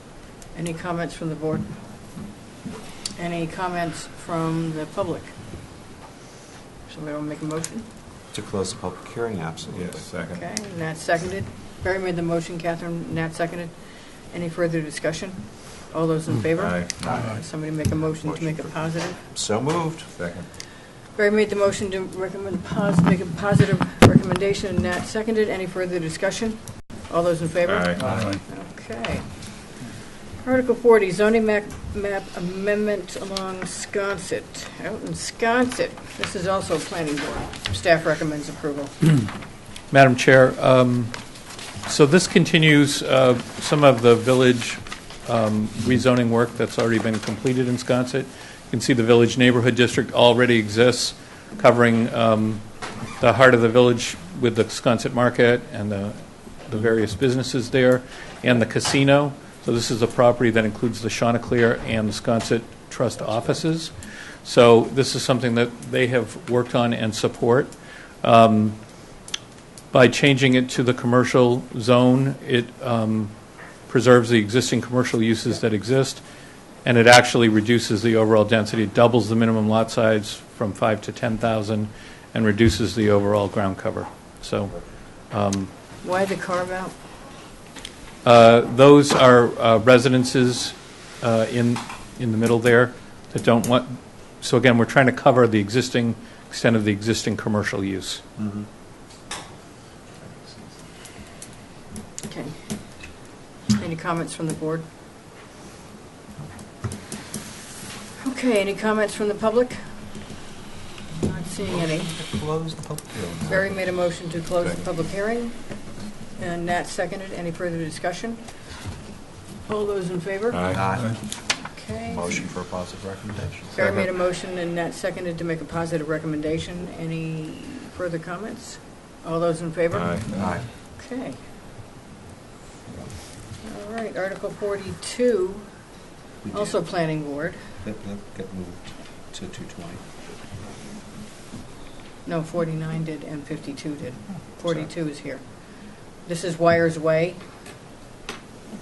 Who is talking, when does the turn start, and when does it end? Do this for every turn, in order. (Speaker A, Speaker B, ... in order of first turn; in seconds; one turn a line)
Speaker A: 0.5-1.7
Speaker A: 3.1-5.3
Speaker A: 6.9-7.9
Speaker B: 8.3-10.1
Speaker C: 9.7-10.5
Speaker A: 10.3-19.2
Speaker C: 16.6-17.1
Speaker B: 18.2-20.1
Speaker C: 20.1-20.5
Speaker A: 21.1-29.2
Speaker C: 27.7-28.1
Speaker B: 28.0-28.4
Speaker A: 30.4-38.9
Speaker D: 39.9-41.1
Speaker D: 41.8-52.6
Speaker D: 53.2-63.9
Speaker D: 64.4-68.8
Speaker D: 69.9-73.3
Speaker D: 73.9-76.2
Speaker D: 76.8-84.7
Speaker D: 85.3-85.7
Speaker A: 86.0-86.9
Speaker D: 88.2-98.2
Speaker A: 102.3-104.8
Speaker A: 108.2-110.2
Speaker A: 111.2-112.1
Speaker B: 111.7-113.8
Speaker A: 113.5-115.8
Speaker A: 116.3-118.5
Speaker A: 119.7-122.4
Speaker C: 120.5-120.9
Speaker B: 120.7-121.2
Speaker B: 122.0-124.1
Speaker A: 123.7-131.4
Speaker C: 129.9-130.6
Speaker B: 130.3-130.7
Speaker A: 133.6-135.7
Speaker B: 136.4-136.7
Speaker A: 136.5-137.6
Speaker B: 137.8-140.0
Speaker A: 142.2-147.4